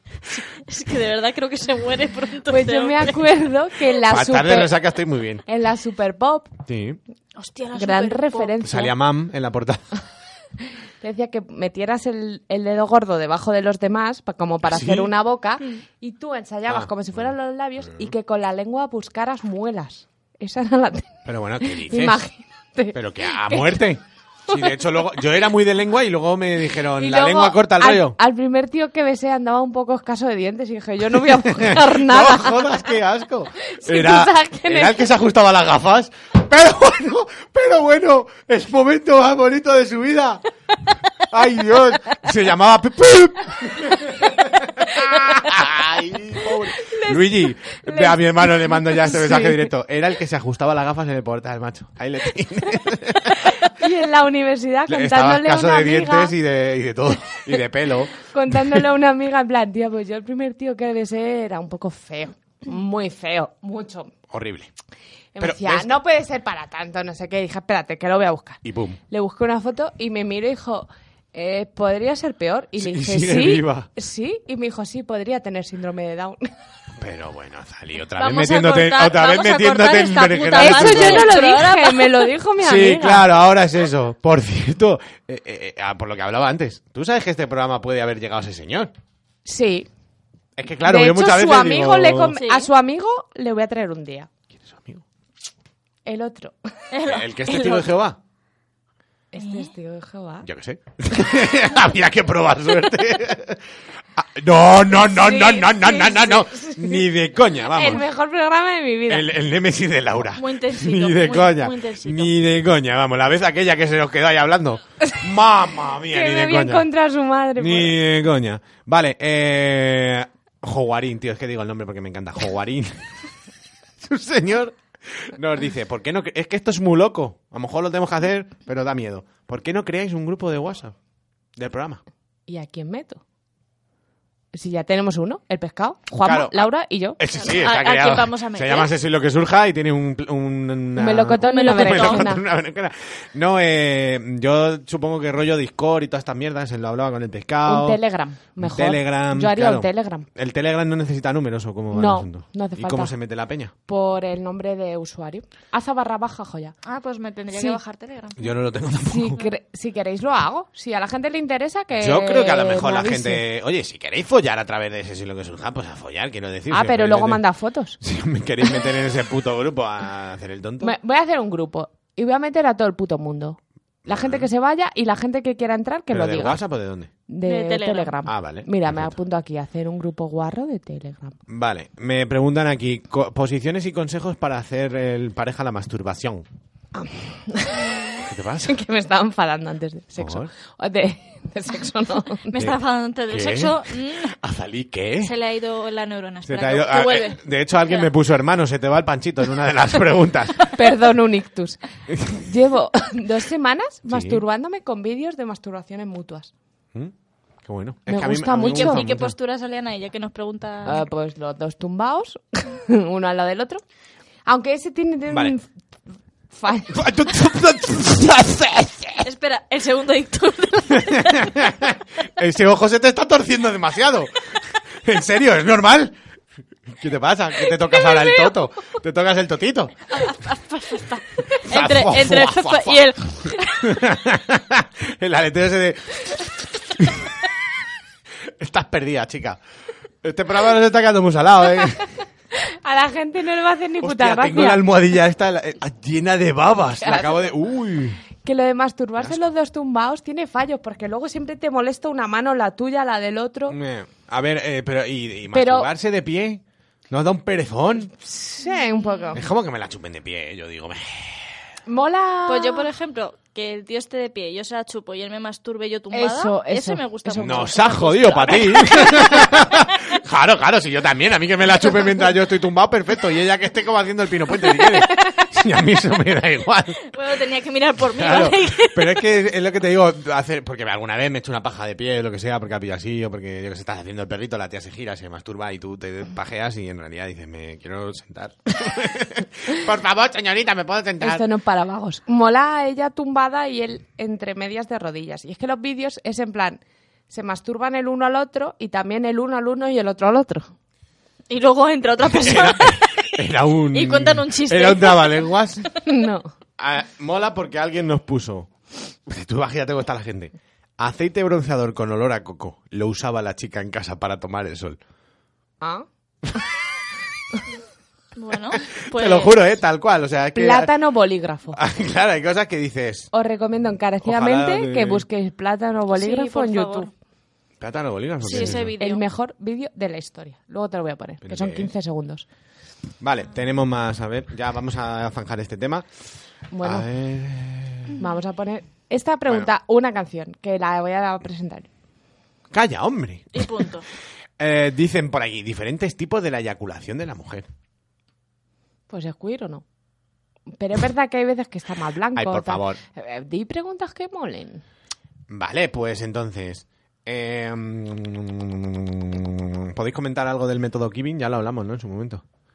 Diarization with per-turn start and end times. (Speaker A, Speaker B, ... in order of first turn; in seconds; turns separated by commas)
Speaker A: 0.3-3.2, Speaker B: 2.5-4.7, Speaker C: 4.0-5.4, Speaker B: 5.5-6.5, Speaker C: 6.7-7.0, Speaker A: 7.3-8.5, Speaker B: 7.7-8.9, Speaker C: 8.6-9.8, Speaker B: 11.0-23.8, Speaker C: 14.6-15.1, Speaker C: 16.7-17.3, Speaker C: 17.8-18.1, Speaker C: 21.2-22.2, Speaker C: 22.9-28.2, Speaker B: 27.0-32.6, Speaker C: 31.1-40.4, Speaker B: 33.7-35.0, Speaker C: 41.3-53.5, Speaker B: 46.8-49.7, Speaker B: 53.6-56.3, Speaker C: 54.9-58.8, Speaker B: 58.2-64.1, Speaker C: 64.3-64.7, Speaker B: 65.3-76.5, Speaker C: 65.4-65.9, Speaker C: 68.6-69.0, Speaker C: 72.8-73.9, Speaker C: 77.0-81.3, Speaker A: 78.2-82.3, Speaker B: 80.6-83.2, Speaker C: 82.6-88.9, Speaker B: 89.4-89.9, Speaker C: 90.6-92.3, Speaker B: 90.8-94.3, Speaker A: 92.3-92.7, Speaker C: 94.6-95.0, Speaker B: 96.0-96.5, Speaker A: 96.9-97.3, Speaker C: 97.0-98.2, Speaker B: 97.5-97.8, Speaker B: 99.3-100.5, Speaker A: 99.4-99.7, Speaker C: 100.4-103.6, Speaker C: 104.2-108.0, Speaker B: 105.0-107.0, Speaker B: 107.7-109.3, Speaker C: 109.1-116.9, Speaker A: 110.3-112.3, Speaker B: 116.1-118.0, Speaker C: 117.6-123.1, Speaker C: 124.0-130.9, Speaker C: 131.6-132.0, Speaker B: 132.5-133.2, Speaker B: 134.5-137.2, Speaker C: 136.2-148.0, Speaker A: 137.4-138.9, Speaker B: 140.9-142.4, Speaker A: 141.4-142.2, Speaker B: 147.7-150.3, Speaker C: 148.6-153.7, Speaker B: 151.9-153.1, Speaker B: 153.9-156.7, Speaker A: 156.8-158.5, Speaker B: 157.5-157.8, Speaker C: 158.4-159.4, Speaker B: 159.1-163.4, Speaker C: 162.0-167.4, Speaker B: 166.7-168.0, Speaker C: 168.0-170.9, Speaker B: 170.8-176.6, Speaker C: 174.1-174.5, Speaker C: 176.1-177.1, Speaker B: 177.3-181.4, Speaker A: 177.4-178.1, Speaker C: 178.2-179.2, Speaker C: 181.5-186.4, Speaker B: 186.9-192.5, Speaker C: 188.2-188.8, Speaker C: 190.2-190.5, Speaker A: 192.5-194.3, Speaker C: 192.6-195.3, Speaker A: 195.2-198.1, Speaker C: 196.4-200.7, Speaker B: 200.7-206.5, Speaker C: 202.1-202.4, Speaker C: 204.1-204.4, Speaker C: 206.9-209.3, Speaker B: 208.1-209.1, Speaker A: 208.7-211.0, Speaker B: 210.8-213.8, Speaker B: 214.5-215.7, Speaker B: 216.5-217.0, Speaker C: 216.9-219.2, Speaker A: 219.2-221.7, Speaker C: 220.9-224.3, Speaker C: 225.0-226.1, Speaker C: 226.9-229.9, Speaker A: 228.1-228.5, Speaker A: 230.1-234.0, Speaker C: 231.7-233.1, Speaker C: 233.8-237.3, Speaker C: 238.6-239.6, Speaker C: 240.2-242.0, Speaker B: 242.7-244.8, Speaker C: 244.0-248.2, Speaker B: 247.0-247.5, Speaker B: 248.4-253.8, Speaker C: 249.2-249.4, Speaker C: 253.7-258.1, Speaker B: 255.5-255.9, Speaker B: 258.2-259.4, Speaker A: 258.7-259.3, Speaker C: 259.3-261.5, Speaker B: 261.9-262.9, Speaker A: 262.5-269.6, Speaker B: 266.1-268.1, Speaker C: 267.4-277.1, Speaker A: 277.1-279.2, Speaker C: 278.1-291.4, Speaker B: 291.2-300.7, Speaker A: 301.5-303.4, Speaker C: 302.2-305.8, Speaker A: 303.9-305.5, Speaker B: 306.0-306.5, Speaker C: 306.8-308.7, Speaker C: 309.2-315.0, Speaker B: 315.8-316.1, Speaker A: 318.4-319.6, Speaker C: 319.1-320.9, Speaker B: 320.5-321.8, Speaker C: 321.7-323.3, Speaker B: 323.3-327.1, Speaker C: 324.2-325.2, Speaker A: 326.1-327.1, Speaker C: 327.8-328.9, Speaker A: 328.4-329.2, Speaker B: 328.5-332.4, Speaker C: 331.4-331.9, Speaker C: 333.2-336.1, Speaker B: 336.7-337.1, Speaker C: 336.8-338.1, Speaker B: 338.2-341.9, Speaker C: 342.7-343.7, Speaker A: 343.5-344.1, Speaker C: 344.6-347.6, Speaker B: 349.1-349.8, Speaker B: 350.8-354.8, Speaker C: 352.3-353.0, Speaker C: 355.5-362.4